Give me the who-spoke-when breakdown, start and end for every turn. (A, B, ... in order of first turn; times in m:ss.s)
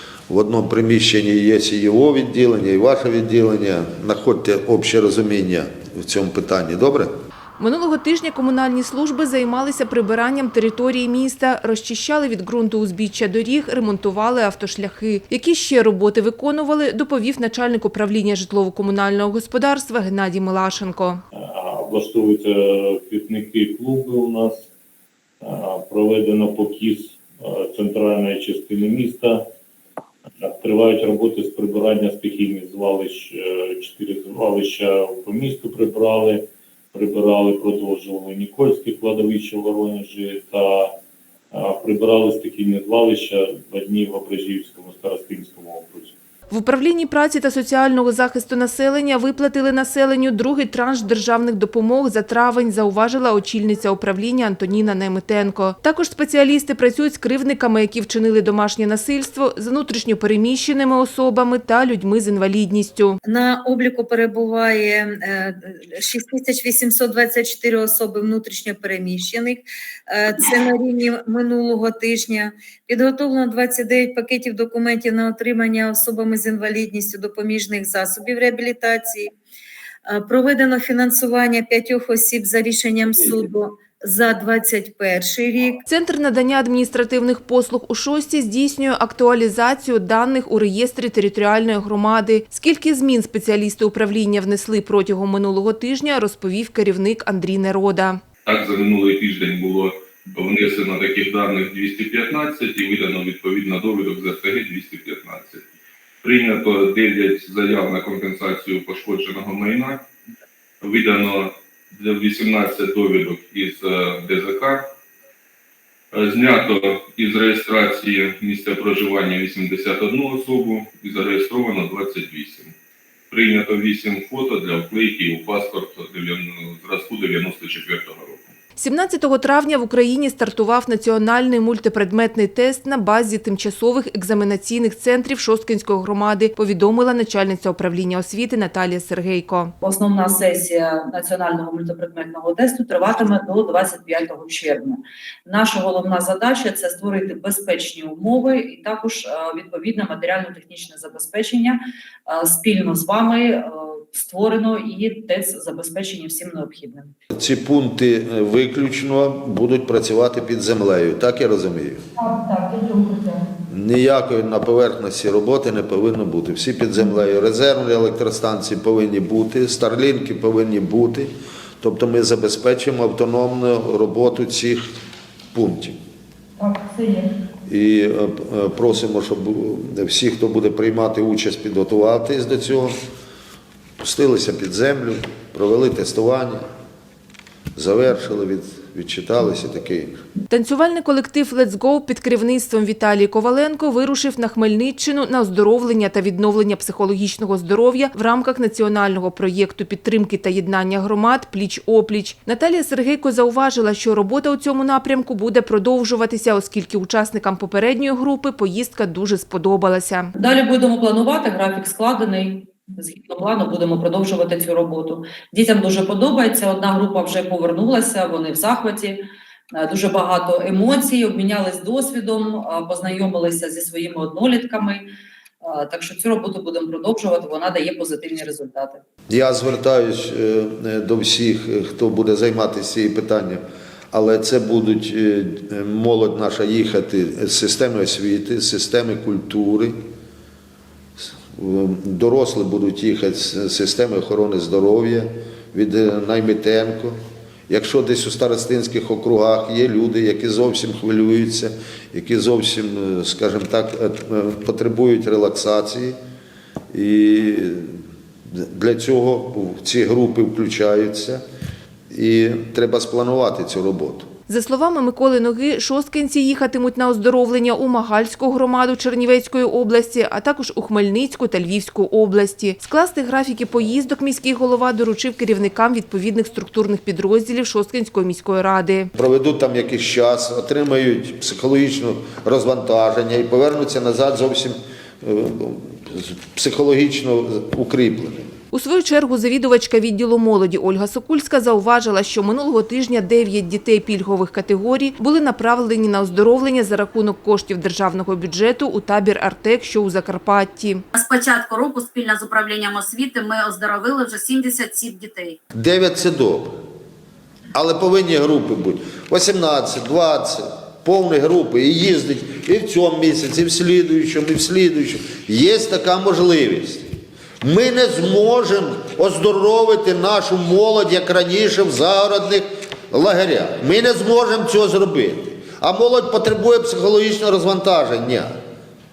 0:00.3-0:07.1 A
0:07.6-0:21.2 B
0:21.3-0:24.7 C
0:25.4-0:29.4 C
0:30.4-0:40.9 C
0:41.5-0:46.2 C
0:46.5-1:03.2 B
1:03.2-1:19.3 D
1:20.1-1:25.8 D
1:25.9-1:38.2 B
1:38.5-1:45.6 E
1:46.2-1:50.0 E
1:50.8-1:54.9 E
1:56.1-2:02.7 E
2:03.3-2:08.5 E
2:08.8-2:19.7 B
2:19.8-2:37.1 F
2:37.3-2:42.0 A
2:42.2-2:43.4 B
2:43.7-2:51.3 A
2:51.8-2:54.8 A
2:55.5-2:56.0 A
2:56.6-2:57.3 B
2:57.7-3:03.0 A
3:04.0-3:06.6 A
3:07.8-3:10.2 A
3:10.5-3:30.3 B
3:30.4-3:39.2 F
3:39.7-3:45.1 F
3:45.6-3:49.0 F
3:49.3-3:53.6 A
3:54.1-4:00.0 A
4:01.2-4:07.2 A
4:07.7-4:16.2 A
4:16.9-4:18.0 A
4:18.5-4:21.4 A
4:22.1-4:24.3 A
4:24.5-4:39.1 B
4:39.2-4:48.5 A
4:48.7-5:01.0 B
5:01.2-5:05.6 G
5:05.7-5:06.7 A
5:07.7-5:17.1 A
5:17.6-5:28.5 A